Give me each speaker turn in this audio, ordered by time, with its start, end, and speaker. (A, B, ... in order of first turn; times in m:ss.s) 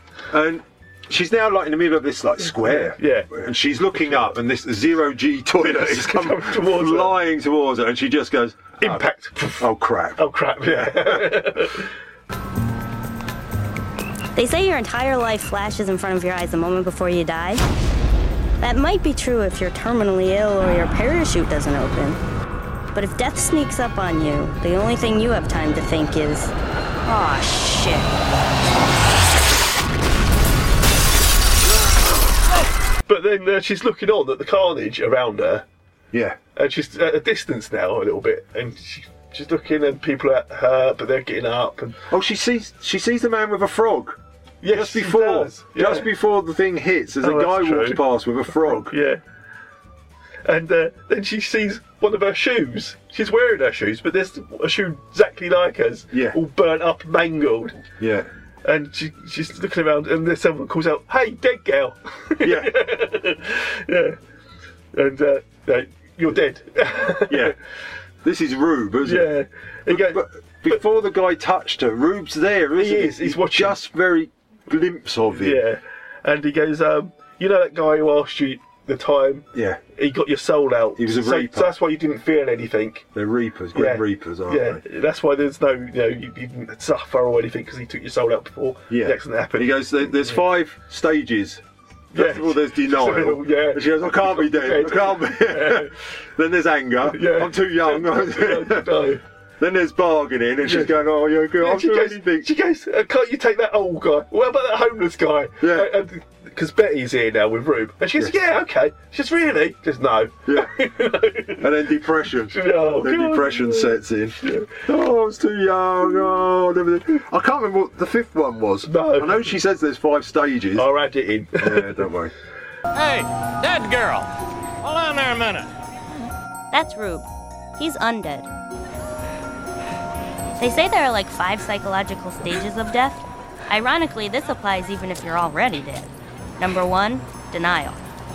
0:00.3-0:09.0 A
0:02.6-0:03.3 B
0:05.6-0:07.2 B
0:08.8-0:11.9 B
0:09.6-0:11.7 A
0:14.3-0:17.6 C
0:18.6-0:22.2 C
0:22.9-0:28.2 C
0:33.1-0:35.6 B
0:36.1-0:36.4 A
0:36.6-0:42.0 B
0:42.1-0:44.2 A
0:44.6-0:46.1 B
0:44.7-0:48.9 A
0:47.2-0:49.2 B
0:50.4-0:57.8 B
0:56.1-0:56.4 A
0:58.0-0:58.3 A
0:58.6-1:04.2 B
1:02.4-1:02.8 A
1:04.9-1:07.5 B
1:07.3-1:07.6 A
1:08.2-1:09.3 A
1:09.0-1:10.8 B
1:09.9-1:15.6 A
1:12.8-1:13.8 B
1:15.3-1:23.1 B
1:19.5-1:19.8 A
1:21.0-1:21.8 A
1:23.1-1:24.8 A
1:23.7-1:30.4 B
1:28.9-1:31.6 A
1:32.1-1:35.9 B
1:32.1-1:42.5 A
1:37.0-1:39.2 B
1:40.6-1:41.0 B
1:41.5-1:51.6 B
1:45.6-1:45.9 A
1:50.4-1:50.7 A
1:51.6-2:00.9 A
1:52.5-1:54.8 B
1:58.8-1:59.6 B
2:00.8-2:02.0 B
2:01.6-2:02.3 A
2:02.9-2:04.3 D
2:04.8-2:05.7 D
2:06.7-2:07.2 C
2:07.8-2:08.5 C
2:10.6-2:18.0 C